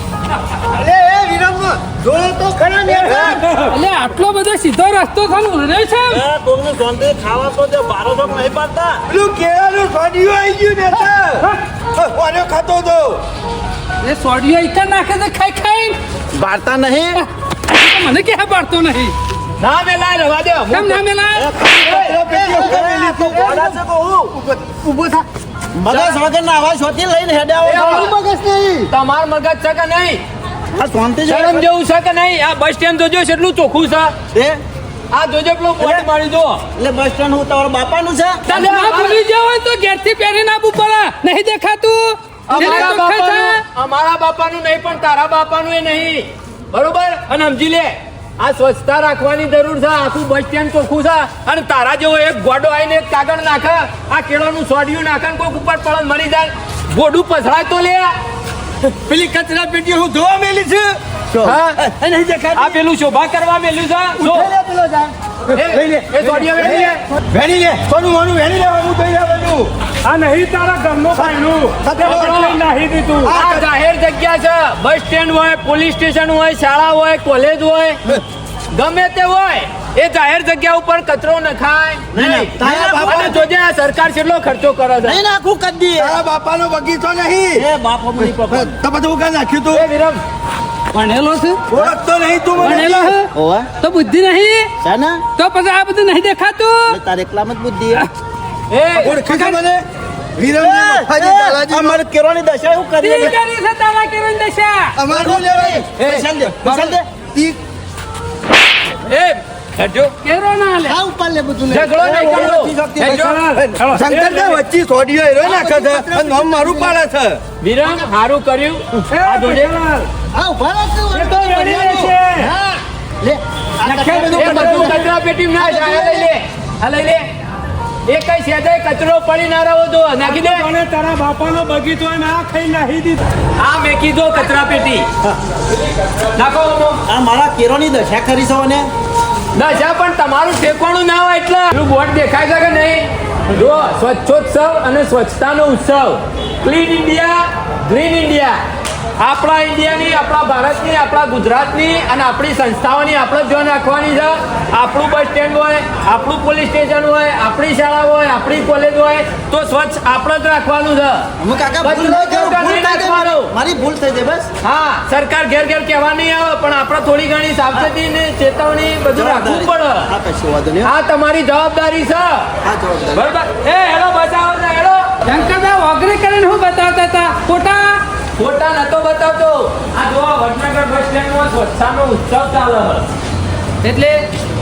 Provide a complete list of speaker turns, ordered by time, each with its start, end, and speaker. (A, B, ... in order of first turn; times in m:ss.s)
0:00.8-0:03.4 A
0:02.9-0:03.8 B
0:03.0-0:03.4 C
0:03.7-0:06.2 D
0:06.1-0:09.0 E
0:09.1-0:13.2 C
0:14.0-0:16.0 D
0:16.3-0:17.2 E
0:17.2-0:19.2 D
0:19.6-0:21.0 F
0:20.7-0:21.6 D
0:21.4-0:24.4 E
0:21.6-0:23.8 A
0:21.8-0:23.8 C
0:24.4-0:25.3 A
0:25.8-0:28.0 E
0:27.6-0:28.1 F
0:27.7-0:28.9 A
0:28.9-0:30.2 F
0:30.8-0:31.7 E
0:31.3-0:34.2 F
0:34.3-0:34.6 E
0:35.1-0:36.6 F
0:35.8-0:36.1 E
0:36.8-0:38.4 E
0:38.5-0:39.2 F
0:38.5-0:43.6 D
0:42.5-0:58.1 F
0:58.8-1:01.0 C
1:01.4-1:01.8 F
1:01.8-1:02.5 C
1:02.1-1:02.8 E
1:02.5-1:04.5 F
1:04.2-1:05.1 A
1:05.5-1:09.7 C
1:05.5-1:07.0 F
1:06.6-1:07.0 A
1:10.0-1:13.4 B
1:11.1-1:12.5 C
1:12.0-1:12.6 F
1:13.3-1:13.6 C
1:13.3-1:18.0 F
1:18.7-1:25.2 F
1:22.1-1:23.4 E
1:22.2-1:23.4 C
1:25.0-1:26.2 E
1:26.0-1:29.9 C
1:27.5-1:28.8 E
1:29.7-1:30.2 F
1:30.9-1:31.6 D
1:31.7-1:33.2 C
1:32.6-1:34.7 D
1:33.3-1:33.7 E
1:34.8-1:35.2 E
1:35.4-1:37.0 D
1:36.9-1:38.1 E
1:38.7-1:39.2 F
1:39.0-1:39.8 C
1:40.4-1:42.0 C
1:40.5-1:43.4 E
1:43.0-1:45.0 D
1:45.0-1:47.6 C
1:45.1-1:47.3 E
1:49.1-1:50.1 F
1:50.2-1:51.0 D
1:50.9-1:52.5 A
1:51.7-1:53.4 F
1:52.0-1:53.3 E
1:53.0-1:54.6 B
1:53.6-1:57.4 C
1:55.4-1:57.0 A
1:57.6-1:59.7 F
1:59.1-2:00.1 B
2:00.3-2:06.3 A
2:01.1-2:02.5 B
2:03.8-2:04.5 E
2:04.0-2:05.0 B
2:04.3-2:07.3 F
2:08.1-2:10.7 F
2:10.2-2:13.2 B
2:13.6-2:15.1 F
2:16.4-2:17.0 F
2:17.1-2:18.9 E
2:19.5-2:28.6 F
2:29.2-2:43.5 F
2:41.4-2:44.5 E
2:44.6-2:50.1 F
2:49.1-2:50.9 E
2:50.8-2:52.5 F
2:52.7-2:53.2 E
2:53.1-2:55.1 F
2:55.3-2:58.0 D
2:58.4-3:03.1 F
3:03.8-3:04.2 D